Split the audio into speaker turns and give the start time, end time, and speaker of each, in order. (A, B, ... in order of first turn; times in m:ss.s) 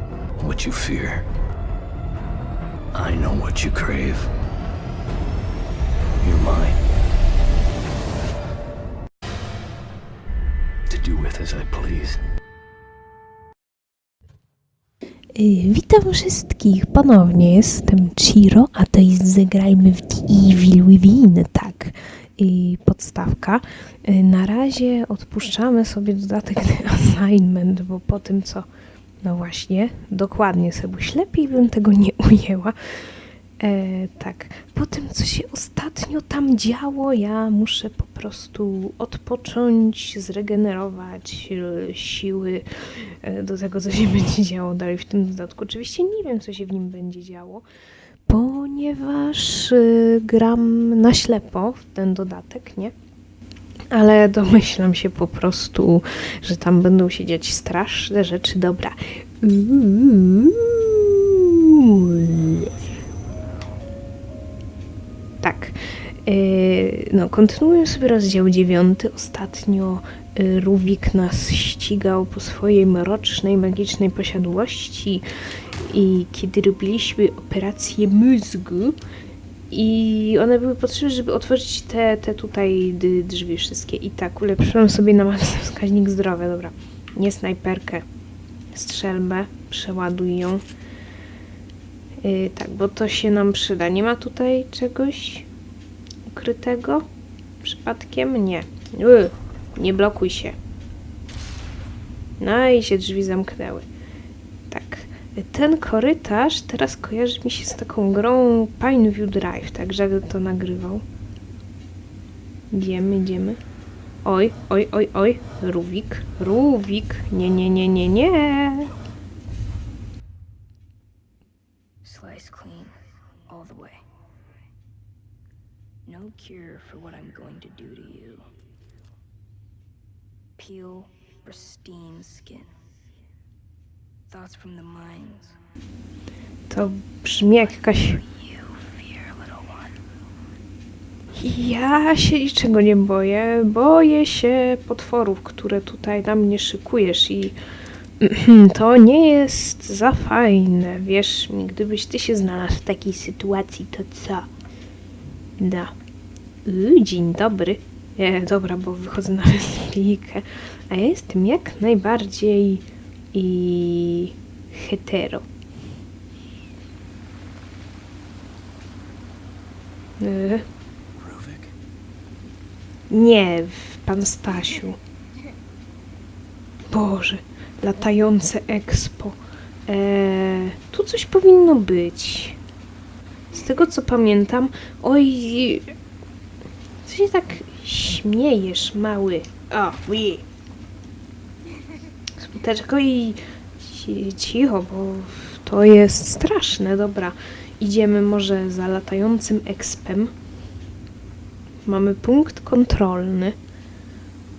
0:00.4-0:01.2 A
0:02.9-0:04.3 A
0:06.2-0:06.8 A
0:10.9-0:12.2 A
0:15.3-0:28.7 B
0:29.2-0:32.8 B
0:33.6-0:47.6 B
0:48.3-0:52.9 B
0:53.9-1:02.7 B
1:05.4-1:15.2 B
1:15.8-1:19.0 B
1:19.7-1:28.0 B
1:28.7-1:30.6 B
1:32.2-1:35.5 B
1:36.3-1:37.0 B
1:37.6-1:40.6 B
1:42.4-1:43.9 B
1:44.7-1:51.0 B
1:52.7-1:53.6 B
1:54.2-1:58.9 B
2:02.0-2:02.9 C
2:03.5-2:04.0 C
2:06.0-2:08.4 C
2:10.6-2:12.6 C
2:14.3-2:15.5 C
2:16.7-2:18.2 B
2:19.2-2:19.9 C
2:21.4-2:27.6 B
2:28.2-2:34.5 B
2:35.6-2:35.9 B
2:36.6-2:45.4 B
2:50.2-2:50.6 B
2:51.2-2:51.7 A
2:53.1-2:55.0 B
2:56.9-3:02.6 B
3:03.5-3:05.9 B
3:07.0-3:10.4 B
3:12.4-3:20.3 B
3:21.8-3:23.6 B